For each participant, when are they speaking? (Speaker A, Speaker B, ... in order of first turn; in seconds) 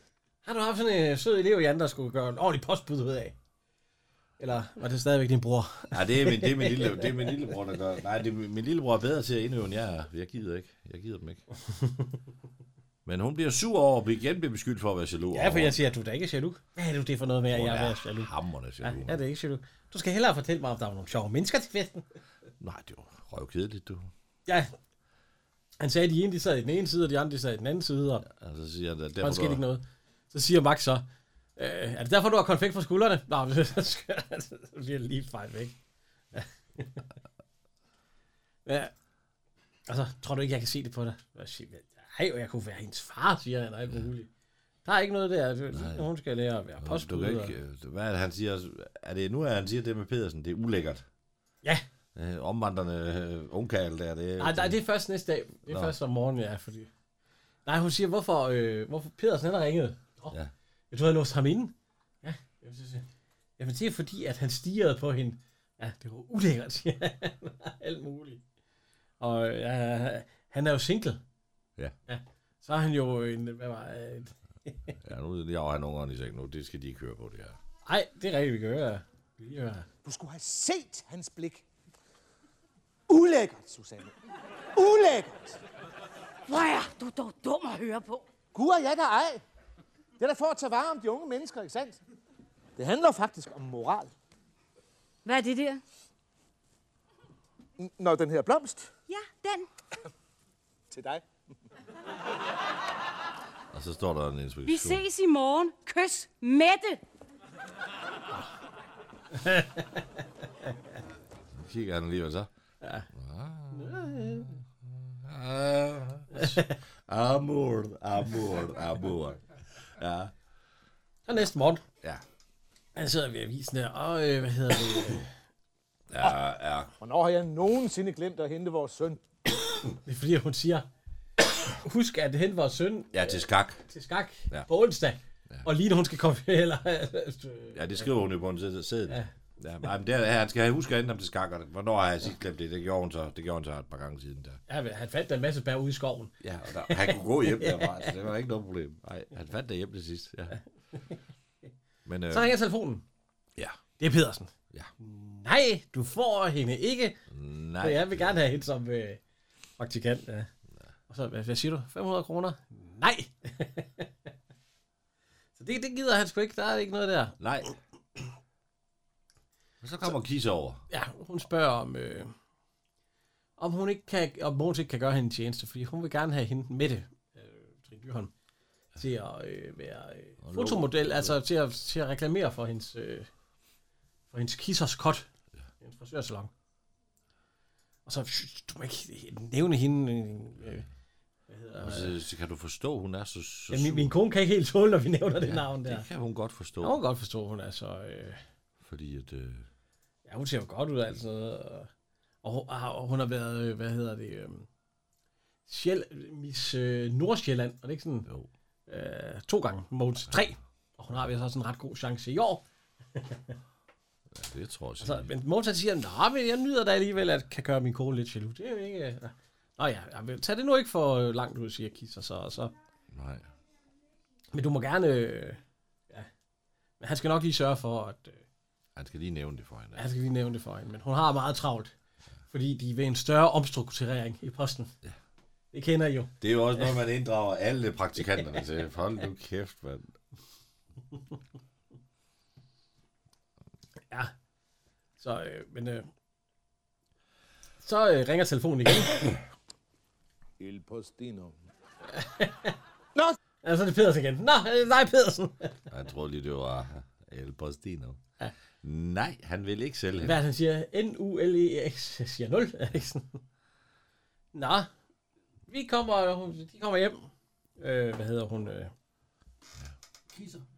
Speaker A: 0.5-3.4, 4.4-7.3, 15.3-18.3, 18.8-22.1, 24.5-24.7, 25.8-28.3, 29.2-31.1, 31.6-35.8, 36.3-37.0, 38.7-38.9, 39.9-44.3, 44.9-47.5, 54.4-56.9, 57.7-60.4, 60.9-63.1, 63.6-68.4, 69.2-71.2, 72.1-74.9, 77.9-79.9, 109.3-110.1, 112.8-113.1, 113.7-114.6, 116.3-116.8, 121.3-121.8, 123.0-125.3, 129.9-130.9, 131.8-138.1, 144.7-146.3, 146.9-148.1, 152.3-153.0, 154.0-157.2, 157.8-159.2, 159.8-160.5, 161.1-164.1, 165.6-167.4, 170.9-172.3, 173.6-178.3, 179.0-183.3, 184.3-185.3, 185.8-186.5, 188.1-190.8, 191.5-192.2, 193.7-196.1, 196.8-198.4, 200.3-201.9, 202.4-204.7, 205.7-208.3, 208.9-212.6, 213.2-213.6, 215.0-222.7, 224.5-226.3, 227.0-228.4, 230.0-231.9, 232.5-234.9, 235.7-236.8, 245.2-246.1, 247.8-249.2, 252.1-252.8, 253.6-255.8, 260.2-263.4, 264.5-264.9, 265.7-268.9
Speaker B: 5.9-11.4, 13.1-15.8, 17.5-19.2, 22.6-24.1, 28.2-29.6, 45.7-46.1, 46.8-51.0, 52.1-54.8, 55.7-56.0, 75.0-77.6, 103.7-105.0, 111.5-112.5, 113.1-120.3, 126.1-126.9, 133.1-133.8, 137.7-144.6, 146.4-150.6, 152.1-152.5, 157.3-158.3, 167.4-167.7, 169.8-170.8, 180.4-181.4, 191.8-194.2, 195.4-197.0, 198.8-199.7, 214.3-215.3, 223.1-223.5, 229.0-230.1, 236.4-240.1, 255.9-258.2, 258.8-260.4
Speaker C: 80.0-81.7, 83.1-84.2, 84.8-85.6, 88.5-89.4, 90.2-92.0, 92.8-94.1, 97.8-98.9, 100.9-101.2, 127.0-129.2, 250.6-251.6
Speaker D: 86.5-88.2, 95.2-95.8, 99.1-99.7, 104.7-107.0